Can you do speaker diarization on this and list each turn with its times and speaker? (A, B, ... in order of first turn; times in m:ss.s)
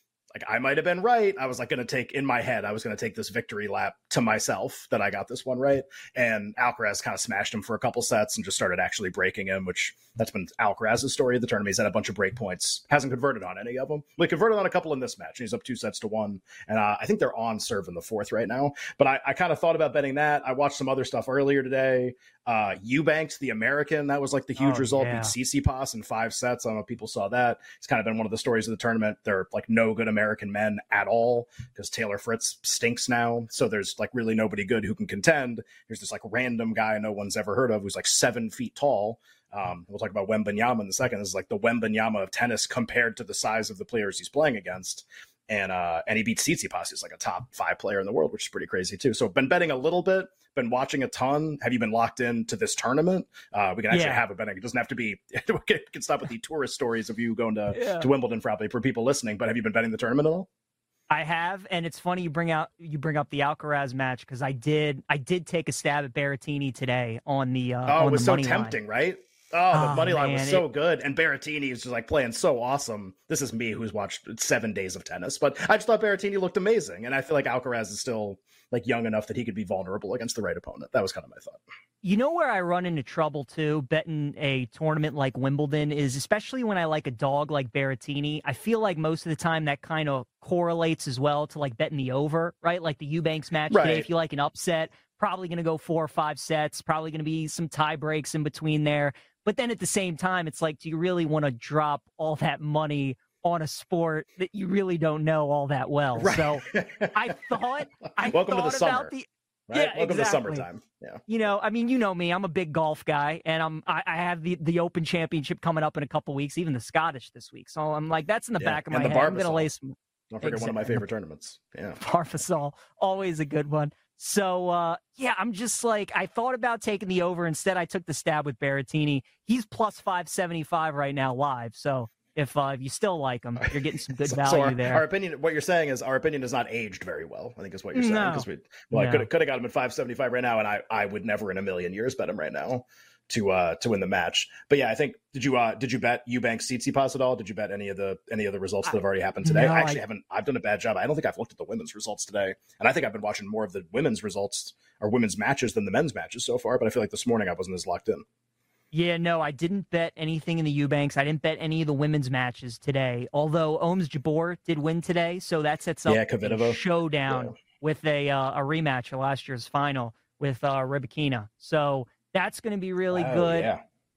0:00.3-1:00.5 A
0:24.6-0:25.3 B
0:53.9-0:54.2 B
0:57.7-0:58.1 B
1:01.1-1:08.8 B
1:07.9-1:21.6 A
1:09.7-1:10.7 B
1:22.0-1:50.7 B
1:33.7-1:34.1 A
1:46.2-1:47.4 A
1:48.2-1:49.1 A
1:49.7-1:51.2 A
1:51.3-2:01.0 B
1:58.6-1:59.7 A
2:00.3-2:02.0 A
2:02.0-2:15.0 B
2:13.6-2:38.2 A
2:17.9-2:19.3 B
2:28.8-2:30.0 B
2:38.9-2:53.7 B
2:46.0-2:47.6 A
2:53.1-2:53.8 A